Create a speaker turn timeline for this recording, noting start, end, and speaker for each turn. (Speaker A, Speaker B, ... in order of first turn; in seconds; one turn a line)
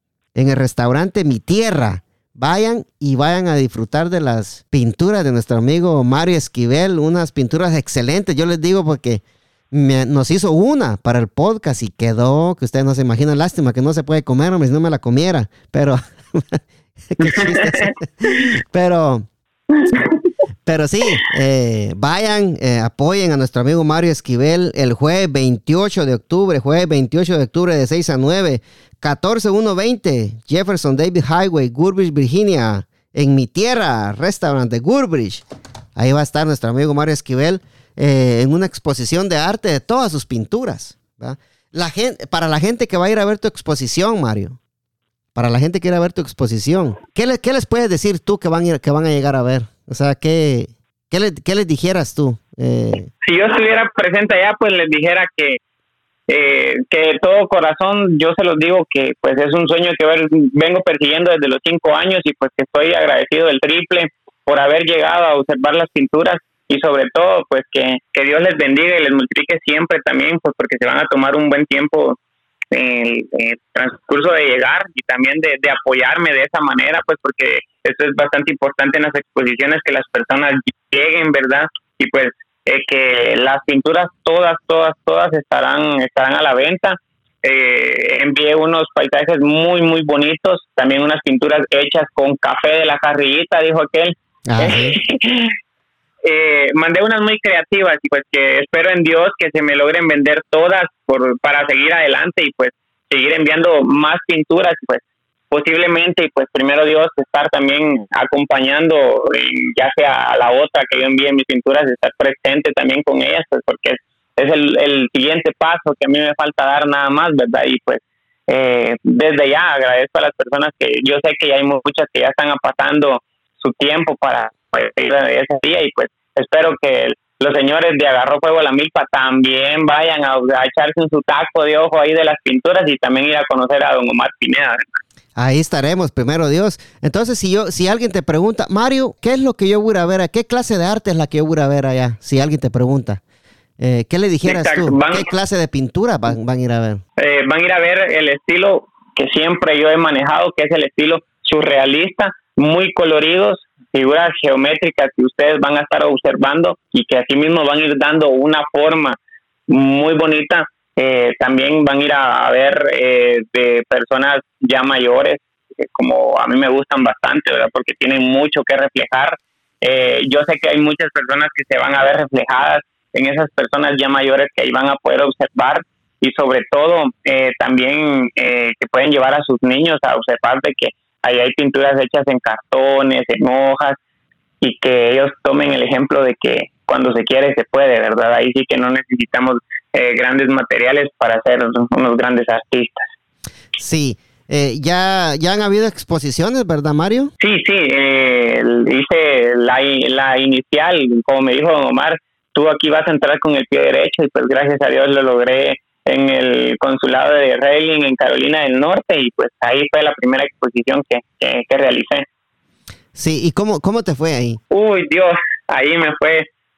Speaker A: 0.3-19.3
Speaker B: 17.2-17.9
Speaker B: 19.7-20.2
Speaker A: 20.6-35.4
Speaker A: 36.0-44.6
Speaker A: 45.4-53.1
Speaker B: 53.2-55.6
Speaker B: 56.3-72.2
Speaker B: 72.7-95.5
Speaker A: 94.5-95.0
Speaker B: 96.2-134.8
Speaker A: 135.4-143.2
Speaker A: 143.8-147.0
Speaker B: 144.5-145.3
Speaker B: 147.2-159.2
Speaker B: 159.7-184.0
Speaker B: 184.6-193.1
Speaker A: 193.8-197.3
Speaker B: 197.4-212.3
Speaker A: 213.2-214.6
Speaker B: 214.7-216.5